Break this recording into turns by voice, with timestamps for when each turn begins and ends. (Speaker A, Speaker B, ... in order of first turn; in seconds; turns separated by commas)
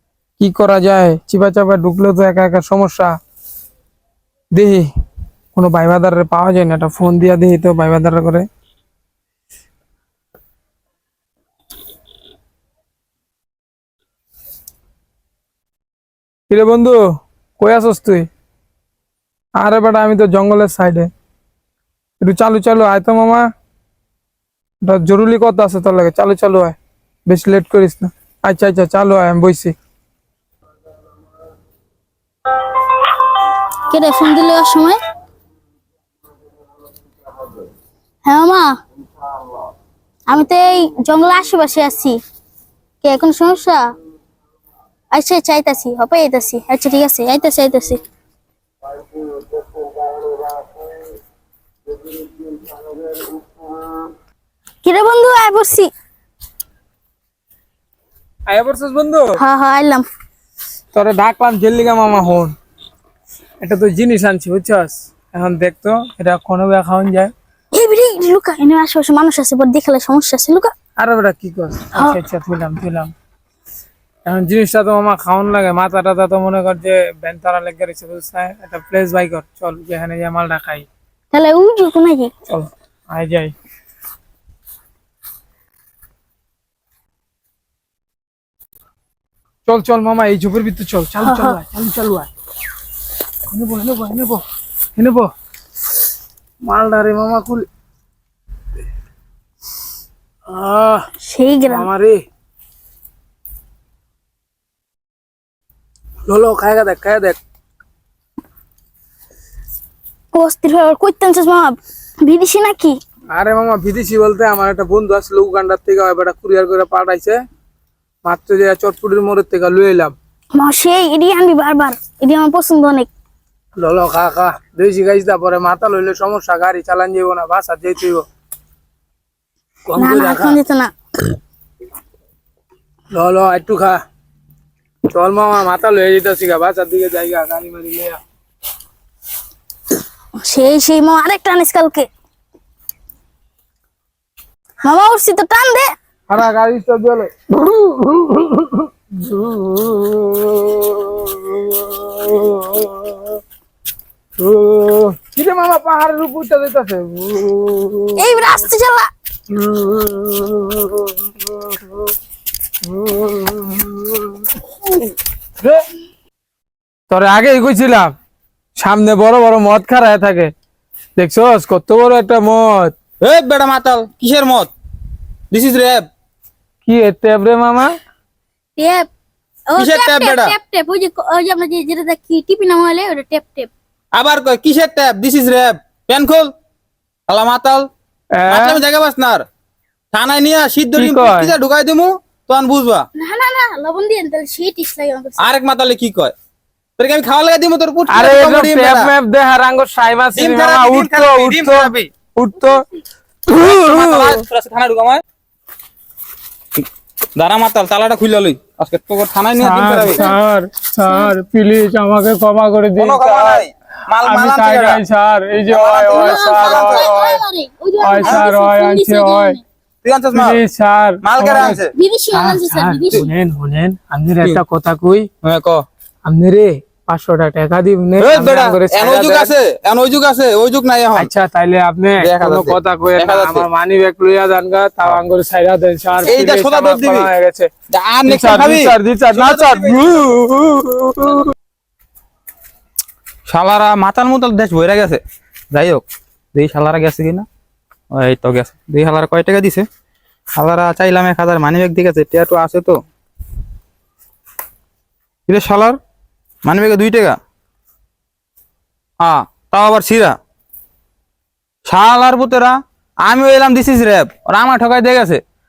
Speaker A: 0.4-3.1, Speaker A: 4.5-4.9, Speaker A: 5.5-8.5, Speaker A: 16.5-17.0, Speaker A: 17.6-18.3, Speaker A: 19.6-21.1, Speaker A: 22.2-23.5, Speaker A: 24.8-29.7, Speaker B: 33.9-35.0, Speaker B: 38.2-38.7, Speaker B: 40.3-42.2, Speaker B: 43.0-43.8, Speaker B: 45.1-48.0, Speaker A: 52.7-53.0, Speaker B: 54.8-55.9, Speaker A: 58.5-59.4, Speaker B: 59.4-60.0, Speaker A: 60.9-62.5, Speaker A: 63.6-67.3, Speaker B: 67.7-70.7, Speaker A: 71.0-73.1, Speaker A: 74.3-80.9, Speaker B: 81.3-82.3, Speaker A: 82.5-83.5, Speaker A: 89.7-92.3, Speaker B: 91.2-91.6, Speaker A: 93.5-94.4, Speaker A: 95.0-95.3, Speaker A: 96.6-97.7, Speaker A: 100.5-101.1, Speaker B: 101.3-101.9, Speaker A: 101.7-102.2, Speaker A: 106.3-107.4, Speaker B: 110.3-113.0, Speaker A: 113.3-117.4, Speaker A: 118.2-120.1, Speaker B: 120.6-123.1, Speaker A: 123.8-128.2, Speaker A: 129.9-130.6, Speaker B: 130.0-130.9, Speaker A: 133.1-134.0, Speaker A: 135.1-138.2, Speaker B: 140.5-142.1, Speaker B: 144.8-145.9, Speaker A: 146.3-153.2, Speaker A: 154.4-158.2, Speaker B: 158.2-159.1, Speaker A: 159.5-161.1, Speaker A: 162.9-164.2, Speaker A: 167.1-168.1, Speaker A: 168.8-170.5, Speaker A: 171.2-172.9, Speaker C: 173.2-174.7, Speaker C: 175.5-176.1, Speaker A: 176.8-178.0, Speaker B: 178.8-179.1, Speaker B: 179.7-183.7, Speaker C: 179.8-180.5, Speaker C: 184.1-186.5, Speaker C: 187.3-187.9, Speaker A: 188.4-188.8, Speaker C: 188.5-189.5, Speaker C: 190.1-193.1, Speaker A: 191.0-191.5, Speaker B: 193.2-195.5, Speaker C: 195.4-196.3, Speaker C: 197.0-199.1, Speaker A: 198.1-202.9, Speaker C: 200.3-202.1, Speaker A: 203.5-204.4, Speaker C: 203.6-205.2, Speaker C: 207.3-210.2, Speaker A: 209.6-213.6, Speaker B: 211.1-211.3, Speaker C: 213.0-215.0, Speaker A: 214.2-217.4, Speaker C: 215.7-217.1, Speaker B: 216.1-219.6, Speaker A: 218.0-219.6, Speaker C: 220.0-220.6, Speaker A: 220.3-221.8, Speaker C: 221.2-221.9, Speaker B: 221.5-223.3, Speaker A: 222.3-225.3, Speaker C: 225.4-225.8, Speaker A: 226.3-229.5, Speaker C: 228.2-231.3, Speaker A: 231.2-237.7, Speaker C: 232.2-233.7, Speaker C: 236.2-237.3, Speaker C: 237.9-240.3, Speaker A: 238.3-241.5, Speaker C: 243.5-245.2, Speaker C: 245.7-247.5, Speaker C: 248.1-249.8, Speaker C: 250.6-253.0, Speaker C: 255.5-256.0, Speaker C: 256.6-257.4, Speaker C: 259.2-260.4, Speaker C: 261.9-265.4